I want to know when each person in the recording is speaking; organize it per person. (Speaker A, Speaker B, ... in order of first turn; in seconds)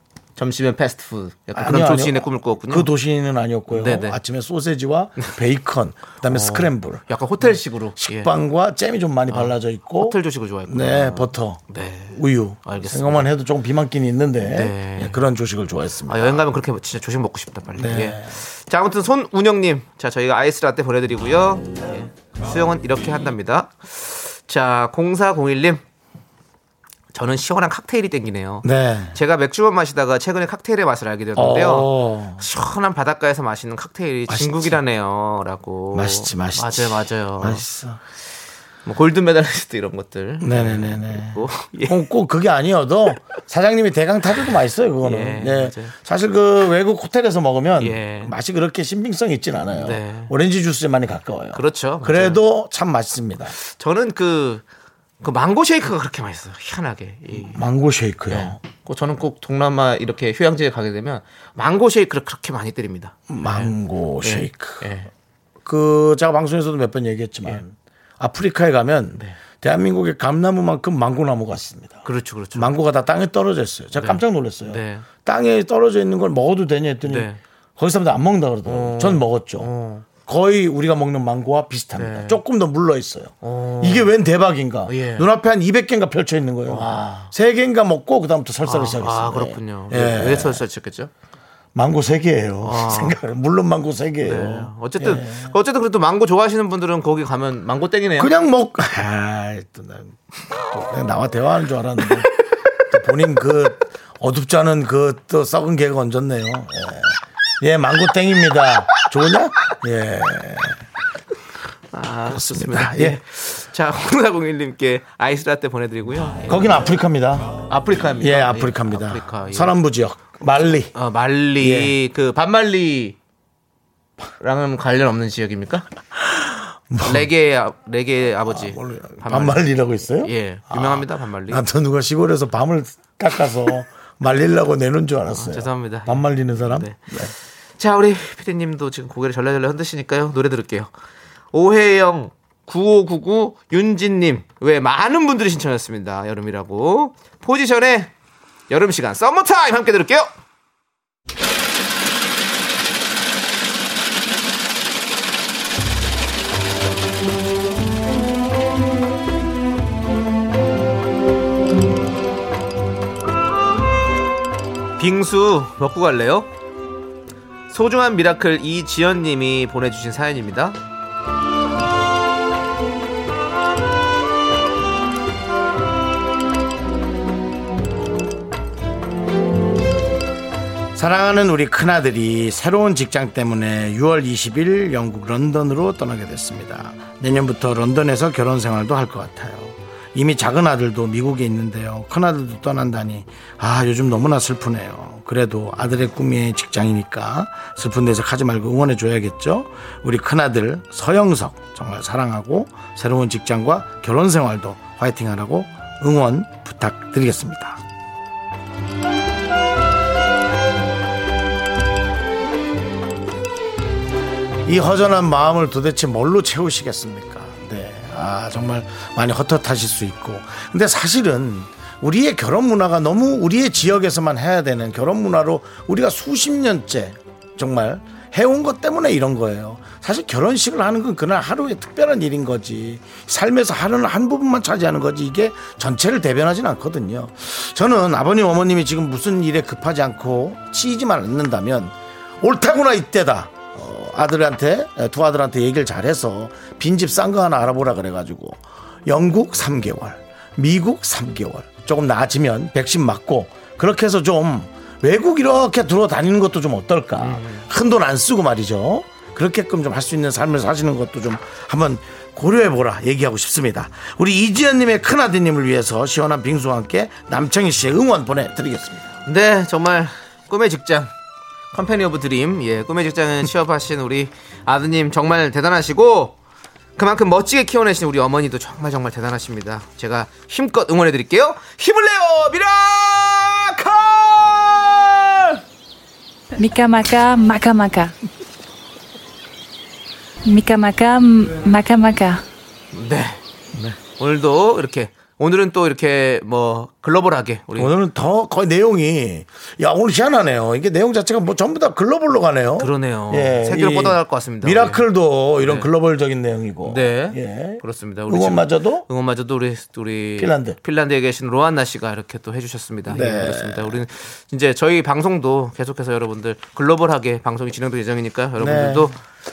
Speaker A: 0.3-2.9, 3.7-4.2, 6.2-8.3, 9.3-13.3, 14.4-15.2, 16.1-25.8, 27.1-37.6, 38.8-42.1, 45.0-45.9, 47.8-48.3, 49.7-50.3, 51.5-52.4, 53.5-54.6, 55.2-57.6, 58.3-65.1, 72.0-72.7, 74.0-75.0, 77.0-77.4, 78.7-80.0, 82.0-82.4, 83.4-84.1, 84.9-85.3, 86.7-87.3, 88.6-91.1, 92.6-93.2, 94.2-98.3, 111.9-116.8, 117.7-119.8, 120.9-123.2, 124.4-125.8, 127.0-129.7, 130.2-131.6, 135.3-137.1, 137.8-140.9, 141.5-148.1, 148.7-150.3, 165.0-166.5, 167.7-170.8, 257.2-257.7, 269.2-271.1, 271.7-276.4, 277.0-285.6, 292.9-293.4, 294.2-297.9, 302.8-305.0, 305.6-305.9, 306.8-319.2
Speaker B: 1.5-16.4, 17.7-18.3, 28.6-29.1, 31.4-32.4, 34.3-34.8, 35.9-38.0, 40.4-53.5, 57.3-58.6, 63.3-64.9, 65.6-79.7, 80.2-90.6, 91.7-95.5, 98.2-102.3, 102.9-110.8, 112.3-113.2, 116.5-117.6, 118.2-120.9, 121.6-121.9, 126.3-127.3, 128.4-137.3, 180.9-207.8, 214.7-269.1, 293.7-294.0, 297.8-309.1, 310.4-310.8, 313.1-314.0, 318.6-319.1
Speaker C: 286.6-288.1, 290.4-292.4